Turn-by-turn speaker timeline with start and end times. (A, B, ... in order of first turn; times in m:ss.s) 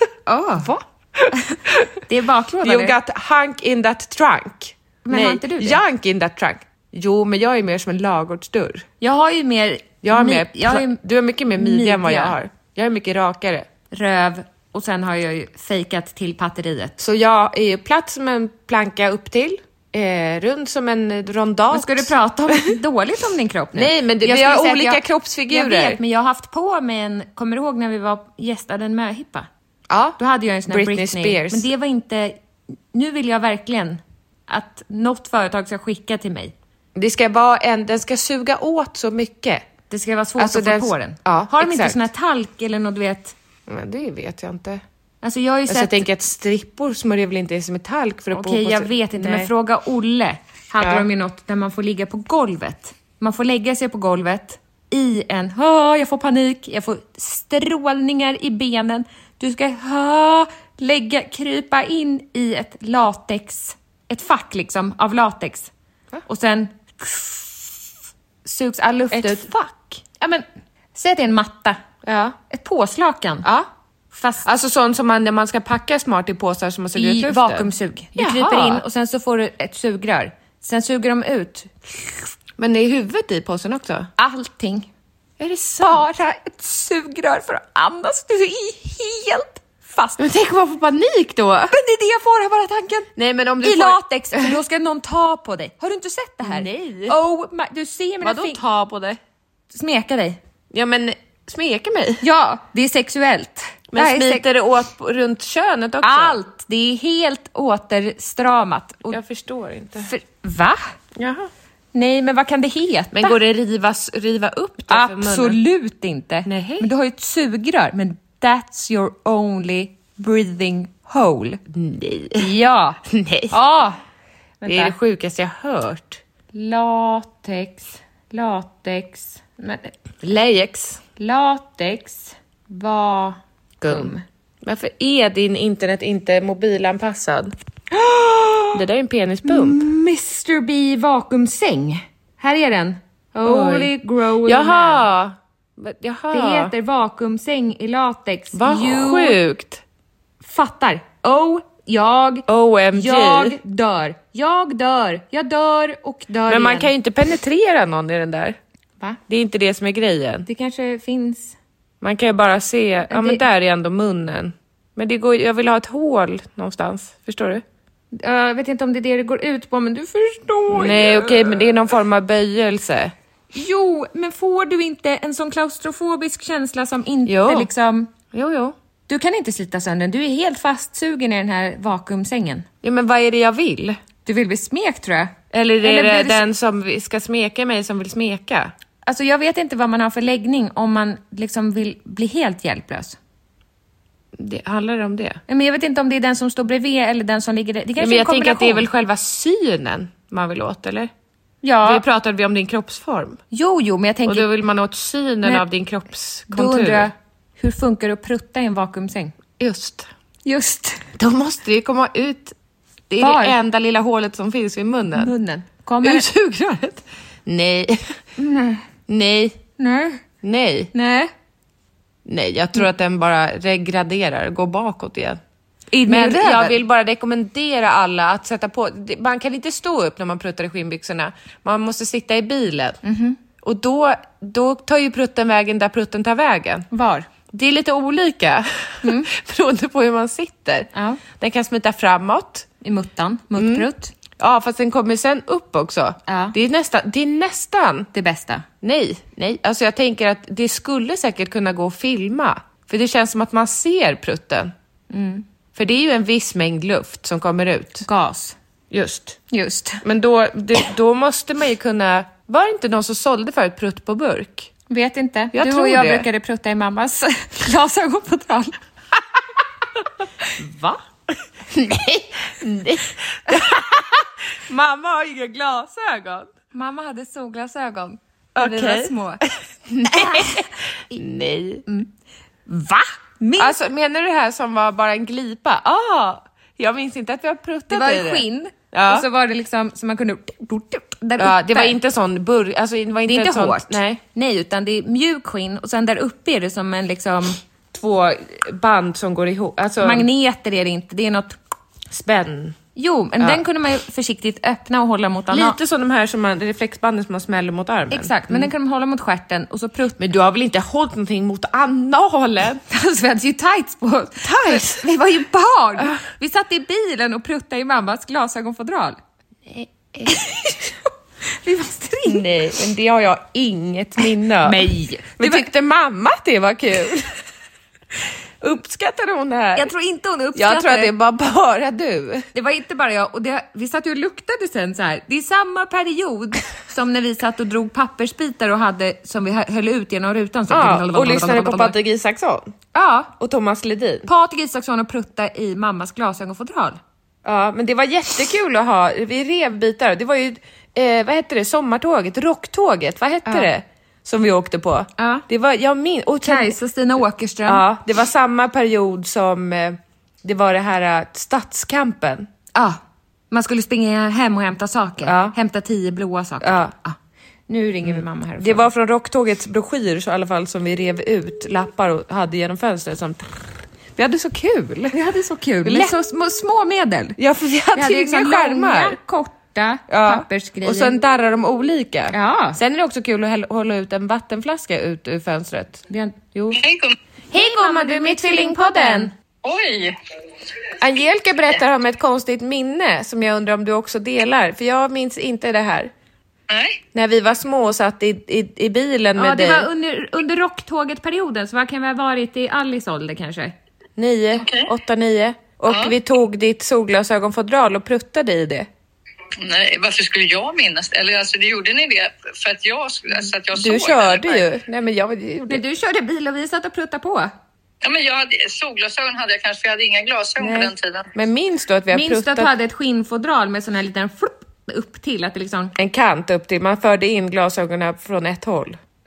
0:00.3-0:00.7 A
0:00.6-0:01.9 B
0:01.5-0:02.9 A
0:02.6-0:08.8 B
0:05.0-0:05.8 A
0:09.0-0:11.0 A
0:10.0-0:13.6 B
0:11.6-0:12.3 A
0:13.9-0:17.0 A
0:17.0-0:22.7 B
0:21.7-0:29.5 A
0:23.7-0:26.0 B
0:29.9-0:31.7 B
0:30.2-0:32.4 A
0:32.9-0:36.5 A
0:36.9-0:39.6 B
0:39.9-0:43.3 A
0:40.4-0:42.0 B
0:43.7-0:44.8 B
0:45.2-0:46.0 A
0:45.7-0:49.5 B
0:48.3-1:05.7 A
0:50.8-0:51.0 B
1:06.3-1:07.8 A
1:08.4-1:11.8 A
1:09.1-1:09.8 B
1:12.0-1:12.4 B
1:12.5-1:13.5 A
1:13.4-1:13.7 B
1:14.1-1:14.4 A
1:14.4-1:18.8 B
1:16.9-1:22.1 A
1:22.6-1:24.1 B
1:24.2-1:24.9 A
1:25.4-1:26.1 B
1:25.8-1:30.2 A
1:30.2-1:31.7 B
1:31.7-1:33.1 A
1:33.2-1:34.6 B
1:33.6-1:38.6 A
1:36.4-1:37.2 B
1:38.2-1:39.2 B
1:39.7-1:40.4 A
1:40.7-1:42.2 B
1:42.2-1:44.4 A
1:43.9-1:46.4 B
1:46.0-1:49.2 A
1:49.1-1:50.1 B
1:50.0-1:50.9 A
1:51.2-1:51.5 B
1:51.9-1:53.4 A
1:53.1-1:55.6 B
1:54.9-2:01.6 A
1:56.4-1:56.9 B
2:01.7-2:02.5 B
2:02.4-2:03.0 A
2:03.0-2:03.5 B
2:03.5-2:04.0 A
2:04.6-2:04.9 A
2:04.6-2:06.2 B
2:06.5-2:09.9 A
2:10.2-2:11.0 B
2:11.2-2:14.2 A
2:13.8-2:14.1 B
2:14.6-2:17.5 B
2:17.9-2:18.8 A
2:18.7-2:19.8 B
2:19.4-2:25.0 A
2:23.4-2:23.9 B
2:24.4-2:26.7 B
2:26.3-2:29.4 A
2:28.5-2:29.8 B
2:30.4-2:36.9 A
2:32.5-2:33.6 B
2:36.5-2:38.6 B
2:39.3-2:40.5 B
2:40.4-2:41.6 A
2:42.0-2:47.6 B
2:43.1-2:43.4 A
2:48.1-2:51.7 A
2:50.7-2:53.1 B
2:53.5-2:58.1 A
2:57.3-2:57.7 B
2:58.3-2:58.7 B
2:59.1-3:02.7 A
3:02.8-3:04.0 B
3:04.2-3:06.4 A
3:05.5-3:08.7 B
3:09.0-3:13.2 A
3:14.4-3:15.4 B
3:15.5-3:18.8 A
3:18.0-3:21.1 B
3:21.6-3:22.0 A
3:21.8-3:23.4 B
3:23.5-3:24.5 A
3:24.2-3:27.1 B
3:26.5-3:29.3 A
3:29.6-3:30.1 B
3:30.4-3:31.0 A
3:31.2-3:32.5 B
3:33.1-3:35.3 B
3:33.1-3:33.5 A
3:35.2-3:36.3 A
3:36.0-3:38.1 B
3:38.4-3:38.8 A
3:39.1-3:39.6 B
3:39.8-3:40.2 A
3:40.4-3:40.9 B
3:40.9-3:41.3 A
3:42.2-3:45.4 B
3:45.9-3:46.7 A
3:46.1-3:53.0 B
3:53.0-3:53.4 A
3:53.6-3:56.9 B
3:56.9-3:57.3 A
3:57.5-4:02.7 B
3:59.0-3:59.3 A
4:00.9-4:01.2 A
4:02.8-4:04.1 A
4:03.6-4:03.9 B
4:04.4-4:08.1 B
4:06.3-4:06.5 A
4:08.1-4:08.6 A
4:08.8-4:14.7 B
4:15.1-4:15.4 A
4:15.7-4:18.0 B
4:18.0-4:18.6 A
4:18.9-4:19.4 B
4:19.5-4:20.0 A
4:20.0-4:24.7 B
4:24.9-4:28.8 A
4:25.5-4:26.3 B
4:30.6-4:31.0 B
4:31.7-4:36.5 B
4:36.7-4:39.4 A
4:38.6-4:41.8 B
4:40.0-4:40.7 A
4:42.7-4:43.8 A
4:43.6-4:49.2 B
4:47.9-4:52.0 A
4:51.4-4:54.2 B
4:53.3-4:57.6 A
4:57.9-5:00.3 B
5:00.0-5:01.6 A
5:02.1-5:02.8 B
5:03.0-5:05.8 A
5:05.5-5:08.7 B
5:08.1-5:10.2 A
5:10.2-5:12.8 B
5:12.9-5:19.2 A
5:14.4-5:15.0 B
5:19.7-5:20.5 B
5:20.3-5:20.8 A
5:21.6-5:22.4 A
5:22.2-5:27.3 B
5:24.6-5:25.7 A
5:28.6-5:29.9 B
5:29.8-5:31.1 A
5:30.5-5:32.5 B
5:32.5-5:42.0 A
5:40.7-5:42.7 B
5:42.9-5:43.3 A
5:43.4-5:44.3 B
5:44.2-5:47.0 A
5:47.4-5:56.8 B
5:55.2-5:55.4 A
5:56.4-5:57.8 A
5:57.6-6:02.5 B
6:02.7-6:03.0 A
6:03.5-6:07.2 A
6:05.2-6:05.5 B
6:06.6-6:06.9 B
6:07.7-6:08.9 A
6:08.0-6:13.5 B
6:14.2-6:15.1 B
6:15.1-6:17.4 A
6:15.8-6:16.1 B
6:17.4-6:19.2 B
6:17.9-6:21.1 A
6:20.1-6:26.8 B
6:22.3-6:22.8 A
6:26.1-6:26.4 A
6:26.7-6:27.2 C
6:27.5-6:29.3 A
6:27.5-6:29.3 B
6:29.6-6:30.2 C
6:31.0-6:36.1 B
6:36.7-6:37.0 C
6:37.1-6:39.9 B
6:39.4-6:43.7 A
6:44.2-6:48.9 B
6:44.6-6:44.9 C
6:45.9-6:46.2 C
6:49.6-6:54.7 C
6:53.7-6:55.8 B
6:55.7-6:57.5 A
6:58.0-7:01.3 C
7:00.6-7:02.7 B
7:02.1-7:05.9 A
7:06.0-7:09.0 B